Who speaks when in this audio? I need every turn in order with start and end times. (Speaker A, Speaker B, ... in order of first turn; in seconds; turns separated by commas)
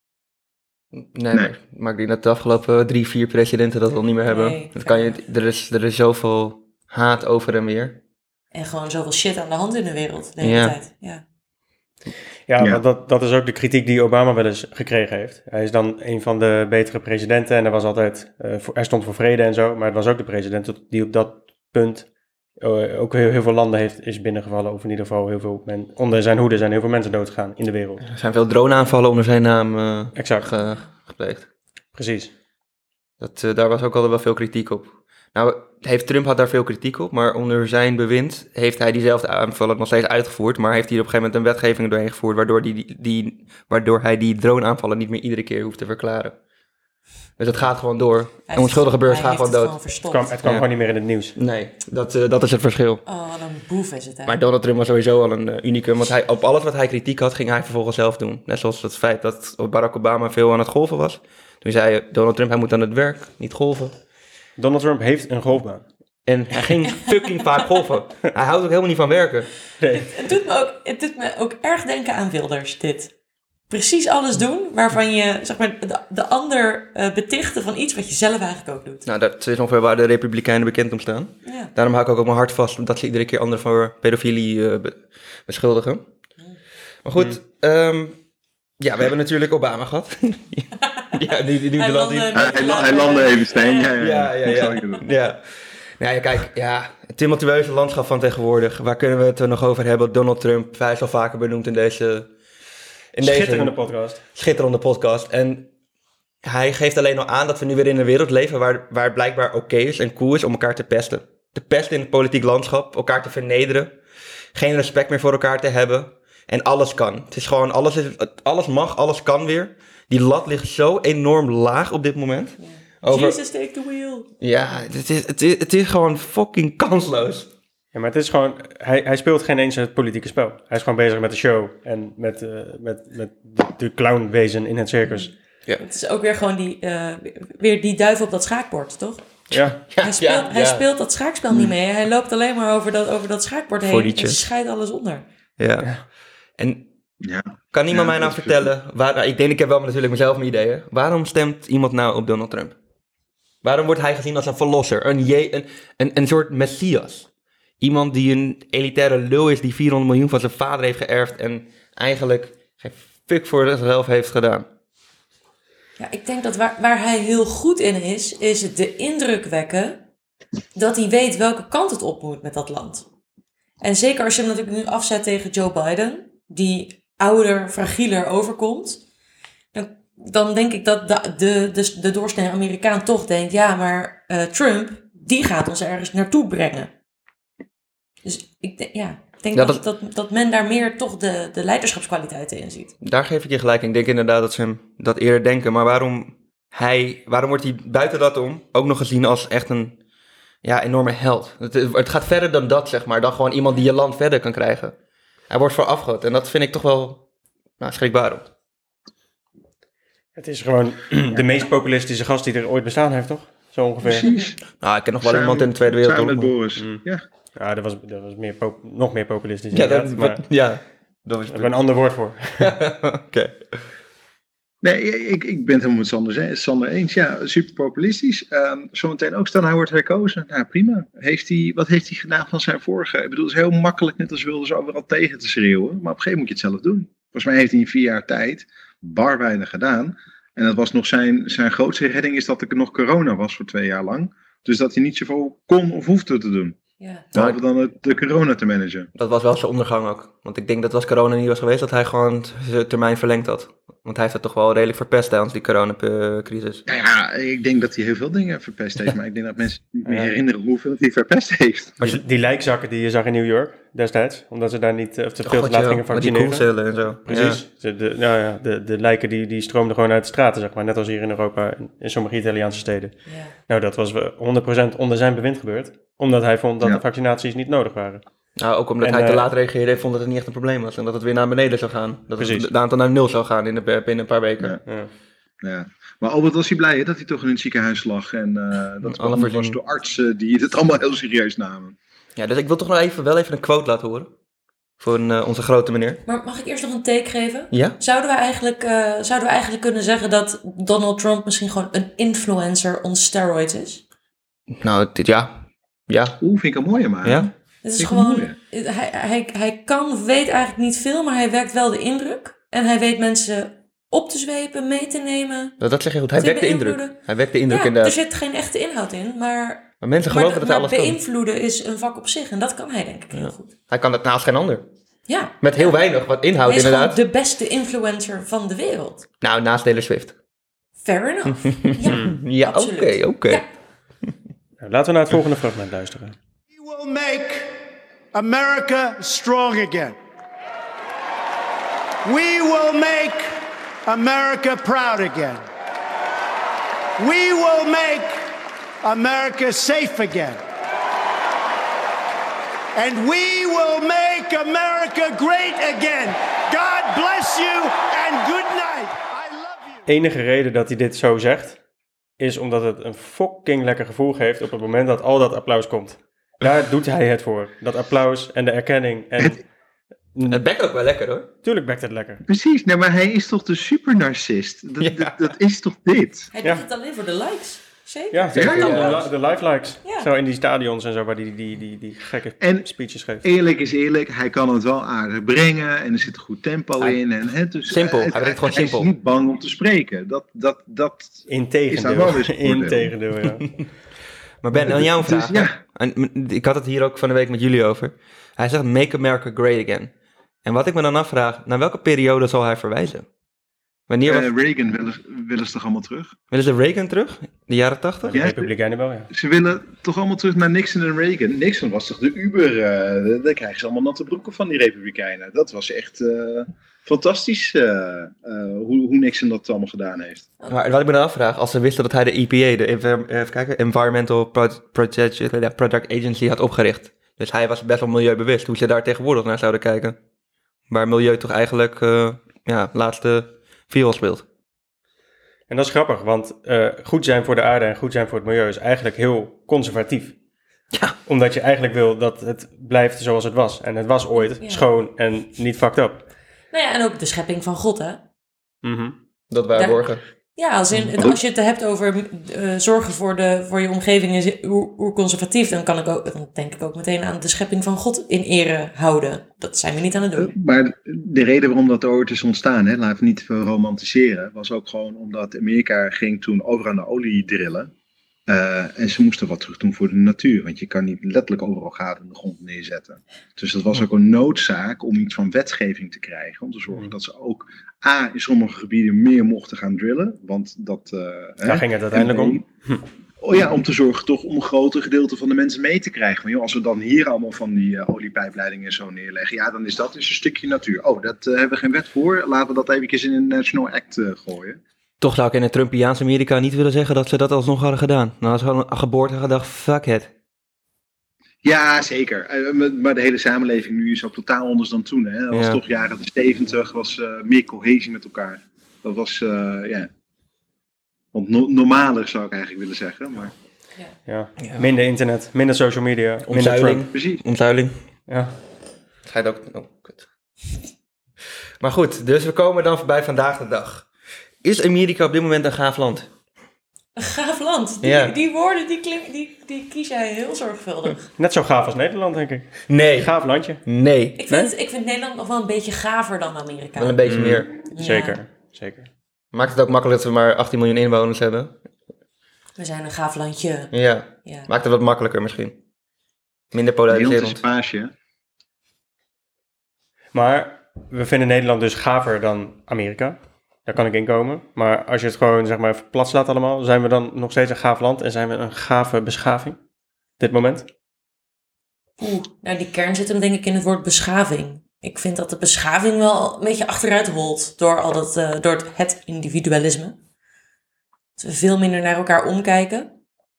Speaker A: 0.9-8.0, Speaker B: 4.2-5.2, Speaker B: 8.5-11.2, Speaker A: 10.4-10.8, Speaker C: 12.5-22.1, Speaker C: 22.6-28.0, Speaker A: 28.0-31.5, Speaker C: 30.1-30.5, Speaker C: 31.9-32.3, Speaker A: 33.2-46.4, Speaker A: 47.4-49.8, Speaker B: 48.5-50.3, Speaker C: 50.1-51.3, Speaker A: 51.4-53.0, Speaker B: 53.0-54.4, Speaker A: 54.2-63.9, Speaker C: 64.6-65.8, Speaker A: 66.2-69.5, Speaker C: 69.8-70.1, Speaker B: 69.9-73.1, Speaker B: 73.7-79.0, Speaker A: 79.0-86.0, Speaker B: 81.4-81.7, Speaker A: 87.0-88.2, Speaker A: 88.8-93.0, Speaker B: 90.8-91.2, Speaker B: 91.7-93.9, Speaker D: 92.3-95.0, Speaker A: 94.0-102.3, Speaker B: 94.5-94.8, Speaker A: 103.1-103.8, Speaker C: 103.2-104.2, Speaker A: 104.3-105.7, Speaker A: 106.4-114.0, Speaker A: 114.5-123.4, Speaker B: 122.6-124.3, Speaker A: 124.4-127.5, Speaker C: 127.9-135.3, Speaker B: 135.1-139.2, Speaker A: 139.5-140.8, Speaker C: 139.5-139.8, Speaker B: 140.0-145.2, Speaker A: 143.8-144.4, Speaker A: 145.6-146.0, Speaker A: 146.6-146.9, Speaker D: 147.2-148.7, Speaker A: 147.7-152.7, Speaker A: 153.6-157.3, Speaker A: 157.8-164.7, Speaker B: 166.0-170.0, Speaker B: 170.7-173.0, Speaker B: 173.8-179.0, Speaker B: 179.7-186.9, Speaker B: 188.2-192.9, Speaker A: 189.5-189.8, Speaker A: 193.0-200.0, Speaker A: 200.6-204.9, Speaker A: 205.5-207.2, Speaker A: 207.8-208.5, Speaker C: 210.3-214.3, Speaker D: 214.0-214.6, Speaker A: 214.8-216.6, Speaker D: 215.2-217.2, Speaker C: 216.8-217.0, Speaker C: 217.6-220.4, Speaker A: 219.7-221.8, Speaker C: 221.5-222.7, Speaker A: 222.6-223.8, Speaker D: 224.8-246.8, Speaker B: 247.0-247.3, Speaker D: 247.3-249.1, Speaker A: 249.2-256.9, Speaker D: 256.9-262.0, Speaker C: 260.0-260.3, Speaker C: 262.0-266.7, Speaker A: 265.4-267.6, Speaker C: 267.2-273.2, Speaker B: 273.2-273.5, Speaker C: 273.7-278.2, Speaker A: 278.6-284.8, Speaker C: 279.0-279.4, Speaker C: 282.4-282.7, Speaker C: 284.9-285.1, Speaker D: 285.6-291.9, Speaker A: 289.0-289.8, Speaker A: 292.4-294.3, Speaker A: 295.0-296.2, Speaker B: 296.3-304.0, Speaker A: 304.7-306.4, Speaker D: 306.4-308.5, Speaker A: 307.2-307.5, Speaker B: 307.8-315.8, Speaker A: 315.8-318.1, Speaker B: 316.4-323.7, Speaker A: 320.0-321.2, Speaker A: 323.3-324.9, Speaker B: 325.3-325.9, Speaker A: 325.6-327.2, Speaker B: 326.6-329.3, Speaker A: 329.4-330.3, Speaker B: 331.0-333.6, Speaker A: 331.7-333.6, Speaker C: 334.8-336.4, Speaker E: 336.7-340.2, Speaker E: 342.2-343.5, Speaker E: 344.0-345.6, Speaker E: 347.2-348.4, Speaker E: 349.0-350.6, Speaker E: 352.9-360.1, Speaker C: 360.1-361.8, Speaker C: 362.4-369.6, Speaker C: 370.3-370.6, Speaker A: 370.5-371.5, Speaker C: 371.6-372.4, Speaker D: 372.5-376.5, Speaker A: 375.0-375.5, Speaker B: 376.5-379.3, Speaker C: 378.3-383.4, Speaker A: 378.5-379.3, Speaker B: 380.0-380.3, Speaker D: 382.6-382.9, Speaker D: 383.4-393.1, Speaker A: 387.9-389.1, Speaker C: 391.5-393.7, Speaker A: 394.6-400.1, Speaker D: 394.8-395.8, Speaker A: 400.6-403.3, Speaker A: 404.1-404.5, Speaker D: 404.2-406.4, Speaker A: 406.5-408.4, Speaker C: 408.2-409.3, Speaker D: 408.3-408.7, Speaker D: 409.3-420.5, Speaker A: 420.7-430.2, Speaker A: 430.9-434.4, Speaker C: 435.7-440.4, Speaker A: 440.9-441.2, Speaker C: 441.2-446.2, Speaker B: 444.4-444.9, Speaker B: 446.7-448.2, Speaker C: 448.8-449.1, Speaker A: 449.5-450.2, Speaker B: 449.7-460.5, Speaker D: 460.4-467.9, Speaker D: 468.5-482.6, Speaker C: 481.6-483.0, Speaker D: 483.4-494.8, Speaker A: 495.2-500.3, Speaker D: 501.6-510.1, Speaker A: 505.5-505.8, Speaker D: 511.3-513.5, Speaker C: 514.3-517.0, Speaker A: 514.6-514.9, Speaker A: 516.5-517.9, Speaker D: 517.1-517.4, Speaker C: 518.3-518.5, Speaker A: 519.2-520.3, Speaker A: 521.8-524.1, Speaker A: 524.6-526.3, Speaker B: 527.2-531.3, Speaker A: 528.0-528.4, Speaker C: 531.4-533.8, Speaker A: 532.9-534.4, Speaker B: 534.4-537.2, Speaker A: 537.0-537.7, Speaker C: 537.2-539.1, Speaker B: 537.9-538.4, Speaker A: 539.5-541.7, Speaker B: 542.8-544.7, Speaker A: 543.9-545.8, Speaker A: 546.7-547.6, Speaker D: 547.1-548.1, Speaker C: 550.3-559.8, Speaker C: 560.4-560.9, Speaker B: 562.2-570.2, Speaker B: 571.4-573.1